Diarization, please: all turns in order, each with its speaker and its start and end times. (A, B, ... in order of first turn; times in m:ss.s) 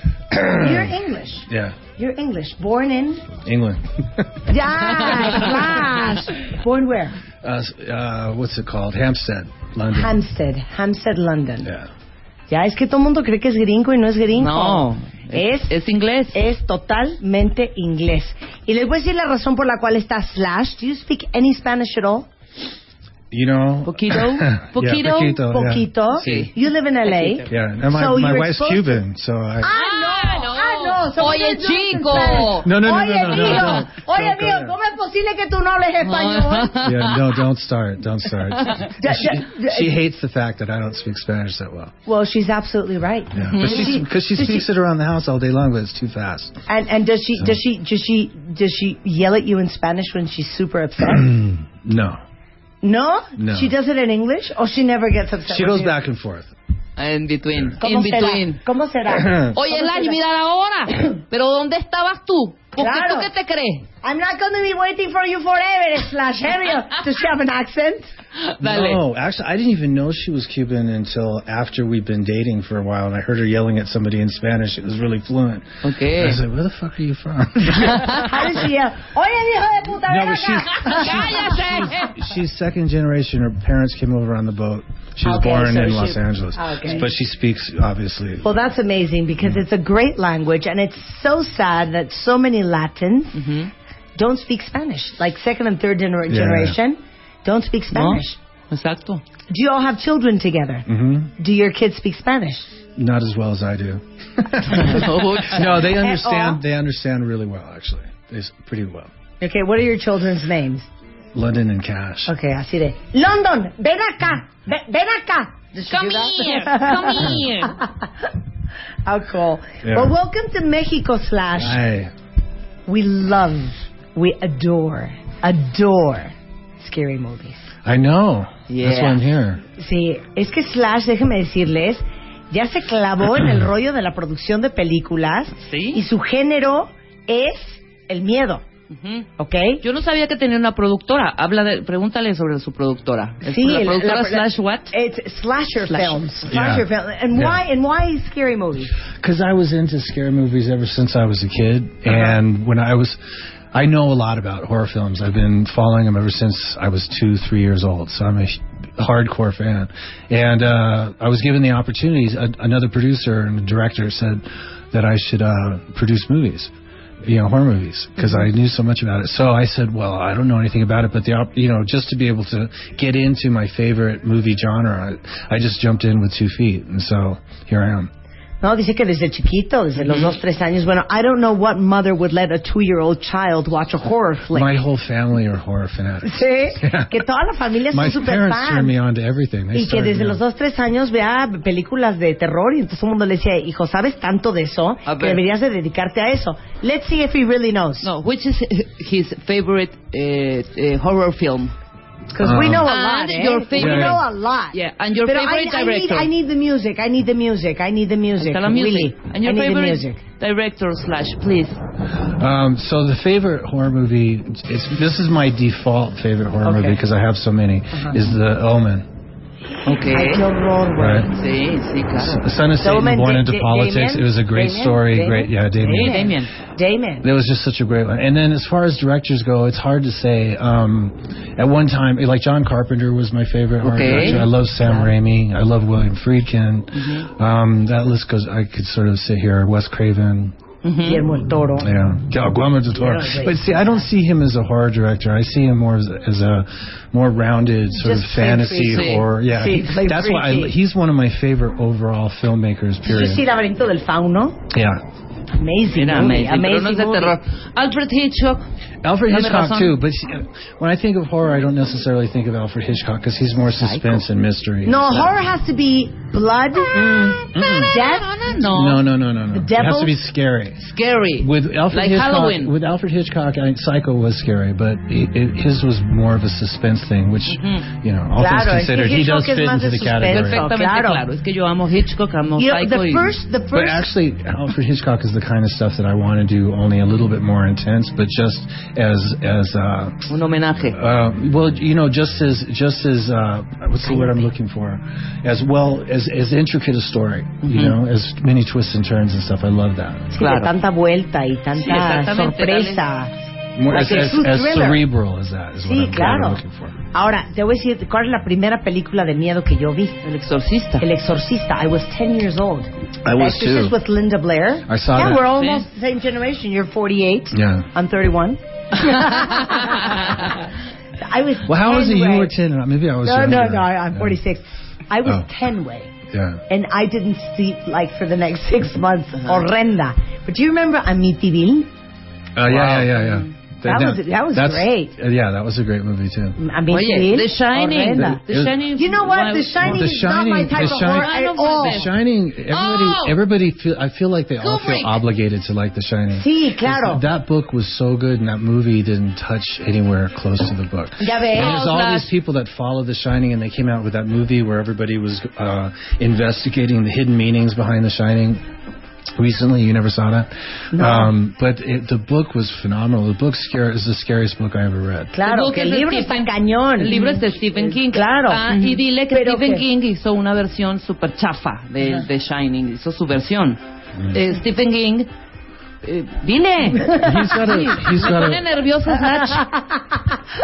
0:00.3-0:00.9 A
0:00.6-0:03.3 B
0:01.5-0:01.8 A
0:03.4-0:04.5 A
0:04.5-0:07.2 B
0:04.8-0:05.9 C
0:07.4-0:10.2 A
0:09.9-0:11.7 B
0:11.6-0:11.9 A
0:12.5-0:15.7 B
0:14.3-0:16.4 C
0:16.3-0:22.3 B
0:23.3-0:26.5 A
0:23.8-0:25.4 C
0:25.5-0:29.0 B
0:26.1-0:26.5 C
0:27.0-0:27.5 C
0:27.5-0:29.7 A
0:29.6-0:36.8 B
0:29.7-0:32.7 C
0:32.3-0:34.7 A
0:33.3-0:33.8 C
0:36.0-0:37.2 C
0:36.8-0:41.9 A
0:39.0-0:39.9 B
0:42.0-0:44.6 B
0:43.3-0:46.6 A
0:43.5-0:43.9 C
0:46.7-0:51.3 B
0:51.1-0:52.2 A
0:52.8-0:56.0 B
0:53.4-0:53.7 A
0:55.5-0:56.5 A
0:57.0-0:58.6 C
0:57.8-1:00.2 B
0:59.1-0:59.5 A
0:59.5-1:03.8 C
1:02.8-1:03.3 B
1:04.0-1:08.1 B
1:08.4-1:09.0 C
1:08.6-1:18.2 A
1:15.8-1:16.4 C
1:17.8-1:18.2 C
1:18.2-1:21.6 B
1:20.0-1:28.5 A
1:20.8-1:22.1 C
1:25.2-1:27.1 B
1:28.4-1:33.4 B
1:33.3-1:33.7 C
1:34.2-1:38.4 B
1:36.3-1:36.8 A
1:37.9-1:39.2 C
1:39.5-1:40.9 B
1:40.9-1:41.3 A
1:41.4-1:42.7 B
1:43.0-1:49.1 A
1:44.7-1:45.9 C
1:46.0-1:46.6 B
1:49.4-1:50.9 B
1:51.3-1:52.3 A
1:52.3-1:58.3 B
1:55.9-1:57.8 C
1:59.0-2:01.8 B
1:59.8-2:00.1 A
2:01.5-2:02.1 A
2:02.9-2:07.7 B
2:07.8-2:09.6 A
2:08.7-2:09.3 C
2:09.8-2:18.6 B
2:15.6-2:16.0 C
2:18.9-2:19.3 C
2:19.4-2:19.8 B
2:19.8-2:24.9 C
2:23.4-2:28.9 B
2:25.9-2:26.1 C
2:26.4-2:27.6 A
2:29.2-2:33.2 A
2:33.7-2:46.7 A
2:47.2-2:58.1 A
2:58.6-3:04.8 B
3:00.0-3:00.3 C
3:04.5-3:07.2 A
3:06.2-3:08.9 B
3:07.9-3:10.4 A
3:09.7-3:18.1 B
3:15.0-3:15.4 C
3:18.0-3:21.7 C
3:22.3-3:30.2 B
3:22.4-3:22.9 A
3:22.8-3:26.3 C
3:23.7-3:24.2 A
3:28.4-3:31.8 C
3:32.4-3:39.0 A
3:36.6-3:37.0 B
3:37.9-3:38.2 B
3:39.8-3:40.4 C
3:40.1-3:41.3 B
3:41.0-3:41.3 A
3:41.3-3:42.4 C
3:42.2-3:46.3 A
3:42.8-3:47.2 B
3:46.0-3:46.5 C
3:47.2-4:00.5 A
3:53.8-3:54.4 C
3:54.1-3:54.4 B
3:56.9-3:57.3 C
4:00.8-4:01.2 C
4:01.0-4:01.9 B
4:01.8-4:13.4 A
4:02.9-4:04.0 B
4:08.0-4:10.7 B
4:08.7-4:09.2 C
4:13.0-4:14.6 B
4:14.7-4:15.0 A
4:15.6-4:17.4 B
4:15.9-4:18.6 C
4:19.0-4:25.4 A
4:19.3-4:20.0 C
4:23.8-4:24.2 C
4:24.8-4:28.3 B
4:27.0-4:29.0 C
4:27.5-4:28.0 A
4:28.6-4:30.8 A
4:29.5-4:30.1 B
4:30.8-4:32.7 C
4:31.4-4:40.6 A
4:37.5-4:37.8 C
4:38.4-4:41.2 B
4:40.2-4:43.3 C
4:42.6-4:44.0 B
4:43.7-4:50.3 A
4:50.3-4:51.0 C
4:50.9-5:00.3 A
4:57.6-4:58.0 C
5:00.3-5:03.3 B
5:00.4-5:00.7 C
5:01.8-5:03.0 C
5:03.8-5:07.0 A
5:03.9-5:05.0 B
5:05.8-5:06.6 B
5:07.1-5:10.2 B
5:10.2-5:11.0 C
5:11.0-5:20.4 B
5:13.2-5:14.0 A
5:14.9-5:15.5 A
5:15.5-5:15.8 C
5:17.5-5:17.9 A
5:19.0-5:20.5 C
5:21.2-5:22.5 B
5:21.6-5:24.4 A
5:23.2-5:26.1 B
5:26.3-5:26.6 A
5:26.7-5:31.9 B
5:29.4-5:29.6 C
5:32.6-5:36.6 A
5:32.7-5:33.5 C
5:33.8-5:35.1 B
5:36.6-5:38.4 B
5:36.9-5:40.1 C
5:38.1-5:38.8 A
5:38.9-5:42.1 B
5:39.8-5:58.6 A
5:40.7-5:42.1 C
5:42.7-5:43.4 C
5:44.6-5:45.2 C
5:46.3-5:47.2 B
5:51.2-5:51.7 B
5:51.5-5:52.3 C
5:59.4-6:05.4 A
6:00.9-6:01.3 B
6:05.3-6:09.8 B
6:05.4-6:13.8 C
6:14.3-6:15.3 C
6:16.0-6:19.6 C
6:17.0-6:17.5 B
6:17.1-6:18.6 A
6:19.4-6:20.2 B